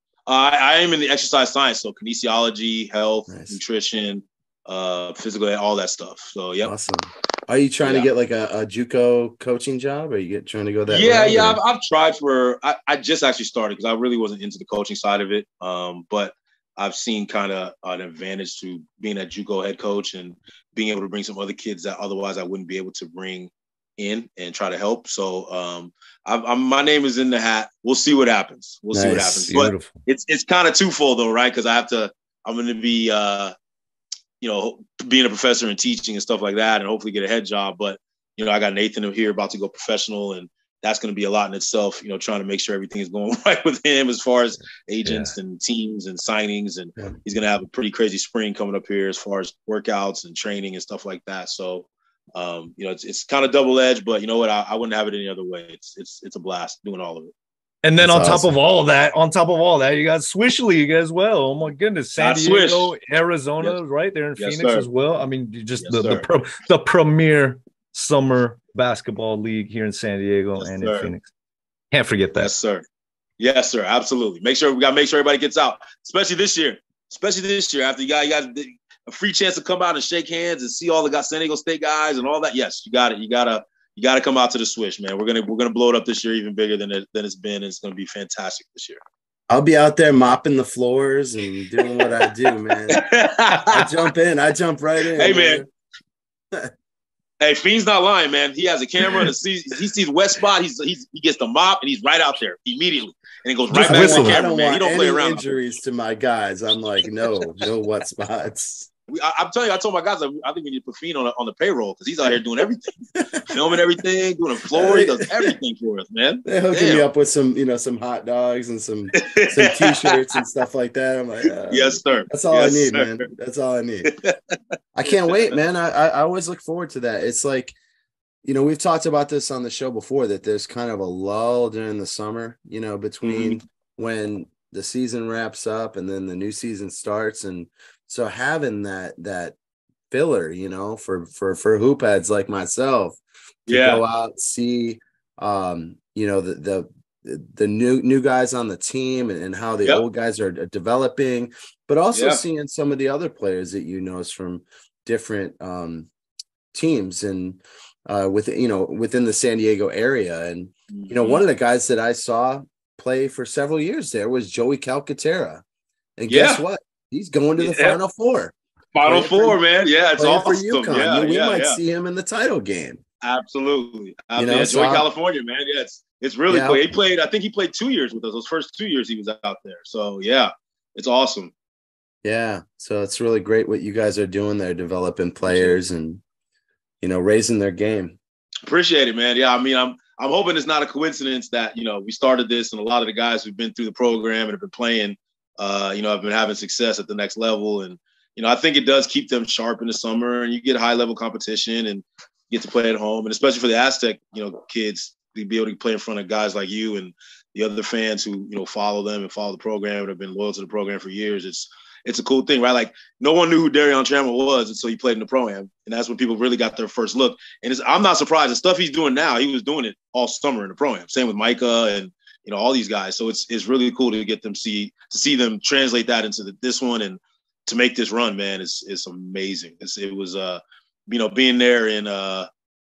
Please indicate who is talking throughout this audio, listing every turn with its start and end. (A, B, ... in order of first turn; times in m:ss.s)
0:00.3-0:06.7 A
0:03.3-0:03.6 B
0:06.6-0:11.6 B
0:07.8-0:08.1 A
0:10.9-0:33.5 A
0:28.9-0:29.5 B
0:29.5-0:29.9 C
0:34.4-0:57.3 A
0:45.0-0:45.3 C
0:57.8-1:11.3 C
0:58.0-0:58.5 B
1:02.2-1:02.9 A
1:04.4-1:04.8 A
1:05.8-1:06.3 A
1:10.6-1:11.1 A
1:11.9-1:12.5 C
1:12.4-1:12.8 A
1:13.4-1:29.0 A
1:29.5-1:33.0 B
1:32.9-1:34.0 A
1:33.5-1:35.7 B
1:35.2-1:35.6 A
1:37.4-1:45.4 A
1:43.7-1:44.4 C
1:43.7-1:48.9 B
1:49.1-1:57.1 A
1:54.7-1:55.5 B
1:56.4-2:04.1 B
1:59.2-2:00.2 A
2:01.6-2:03.3 A
2:04.0-2:04.5 A
2:04.9-2:07.7 B
2:08.4-2:19.6 B
2:13.2-2:13.6 A
2:20.1-2:36.1 B
2:23.7-2:24.0 A
2:32.1-2:32.4 A
2:36.7-2:45.6 B
2:40.9-2:41.4 A
2:46.2-2:49.6 B
2:46.3-2:46.6 A
2:47.6-2:48.0 A
2:48.9-2:51.8 A
2:50.2-2:53.0 B
2:53.2-3:01.5 A
2:54.4-2:55.1 B
2:56.5-2:56.9 B
3:02.2-3:06.2 B
3:05.4-3:05.8 A
3:07.0-3:08.2 B
3:08.6-3:52.5 A